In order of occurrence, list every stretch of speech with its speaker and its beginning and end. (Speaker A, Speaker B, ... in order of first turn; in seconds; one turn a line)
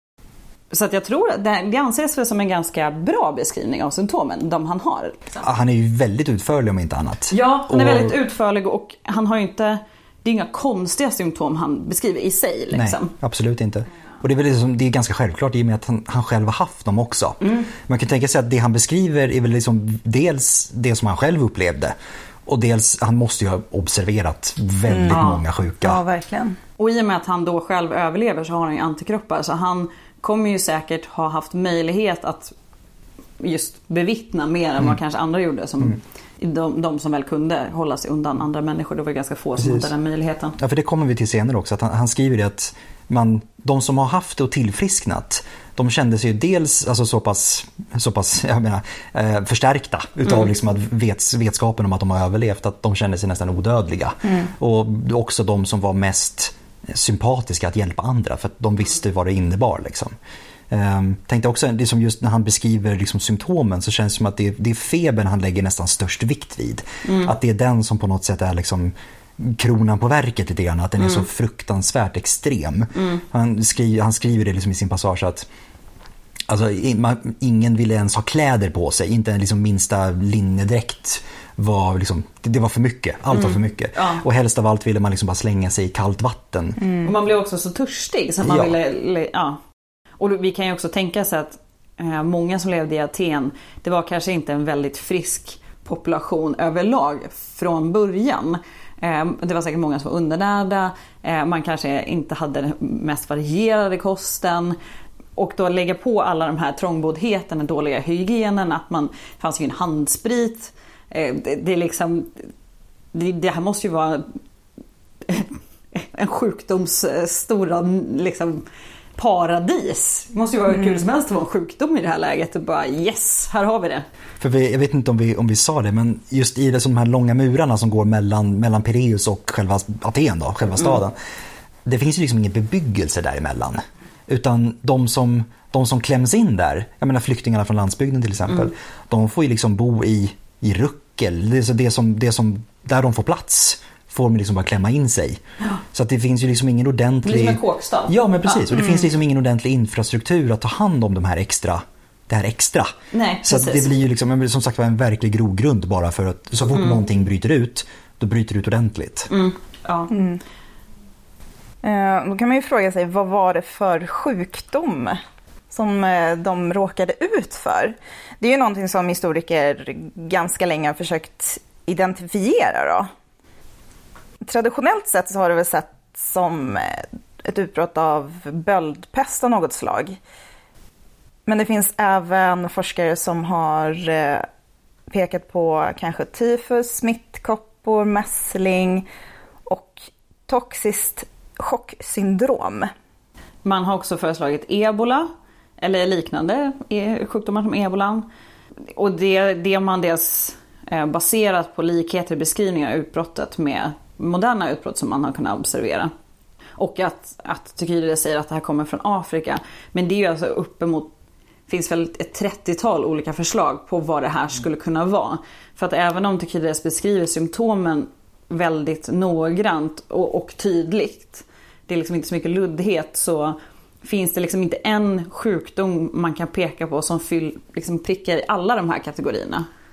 Speaker A: 0.7-5.4
Speaker B: 5.4-8.1
Speaker A: 7.3-13.1
Speaker B: 12.7-21.9
Speaker A: 17.4-17.7
Speaker B: 22.4-26.0
Speaker C: 24.9-25.2
Speaker A: 25.1-25.4
Speaker C: 25.8-26.6
Speaker A: 26.8-32.5
Speaker A: 33.4-40.5
Speaker B: 39.6-39.9
Speaker B: 40.6-60.1
Speaker B: 60.7-75.5
Speaker A: 67.0-67.3
Speaker A: 71.0-71.2
Speaker B: 76.5-86.8
Speaker A: 83.3-84.2
Speaker A: 86.9-89.6
Speaker B: 88.4-88.7
Speaker A: 90.2-104.8
Speaker A: 105.3-112.4
Speaker A: 113.1-114.2
Speaker A: 115.2-118.6
Speaker A: 119.2-124.0
Speaker B: 124.4-131.1
Speaker B: 131.8-145.4
Speaker B: 145.9-159.3
Speaker A: 147.2-148.6
Speaker A: 153.1-153.9
Speaker A: 159.3-160.1
Speaker C: 160.1-160.4
Speaker C: 161.8-165.2
Speaker C: 165.7-173.1
Speaker C: 174.4-180.2
Speaker C: 181.4-184.4
Speaker C: 185.1-189.1
Speaker C: 189.7-192.9
Speaker A: 193.6-195.3
Speaker A: 195.8-198.2
Speaker A: 198.9-206.1
Speaker A: 206.8-211.1
Speaker A: 211.7-229.7